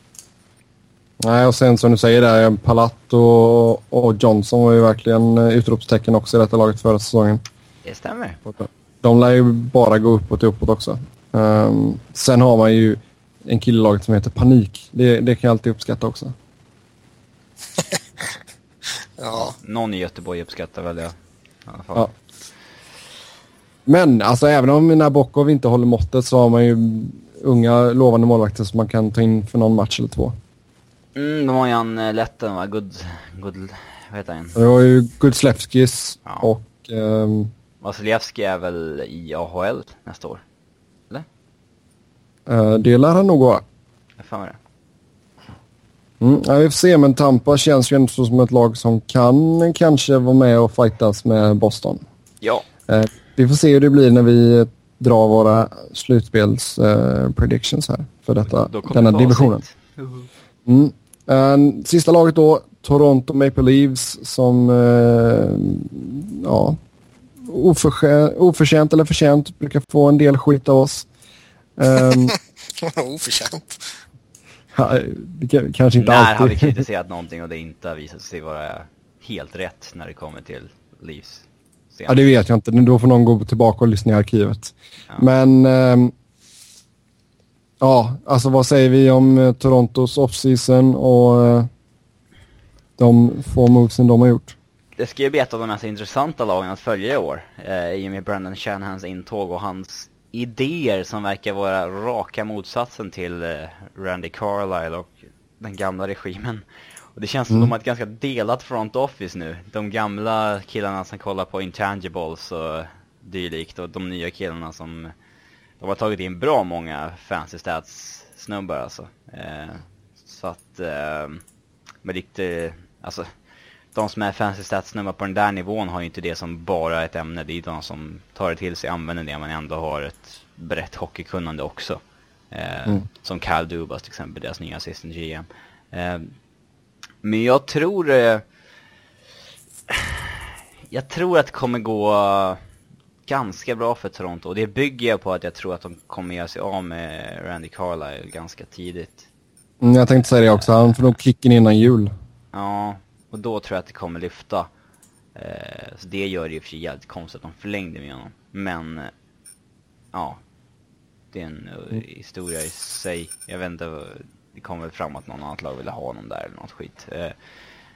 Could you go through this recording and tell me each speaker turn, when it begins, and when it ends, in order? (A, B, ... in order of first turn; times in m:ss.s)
0:01.2-0:07.4 A
0:07.8-0:08.4 B
0:08.5-0:16.3 A
0:19.2-0:19.5 C
0:19.3-0:21.1 B
0:21.7-0:22.1 B
0:23.8-0:30.4 A
0:31.1-0:34.6 B
0:34.6-0:37.5 A
0:37.8-0:40.4 B
0:42.5-0:43.6 A
0:44.2-0:44.6 B
0:46.2-0:52.0 A
0:52.9-0:59.6 A
0:58.5-1:00.3 B
1:00.6-1:06.8 A
1:07.4-1:11.0 A
1:11.8-1:12.3 A
1:12.2-1:14.0 C
1:14.7-1:16.8 A
1:16.0-1:22.2 B
1:22.1-1:26.1 A
1:27.8-1:31.7 A
1:33.0-1:34.6 A
1:35.0-1:55.1 B
1:55.8-2:01.4 B
2:02.0-2:03.3 B
2:03.9-2:12.0 B
2:12.5-2:16.3 B
2:17.2-2:18.4 B
2:19.9-2:22.6 B
2:23.2-2:29.3 B
2:29.8-2:32.1 A
2:30.5-2:31.0 B
2:32.5-2:34.7 B
2:35.3-2:39.1 B
2:40.1-2:40.4 B
2:41.3-2:47.4 B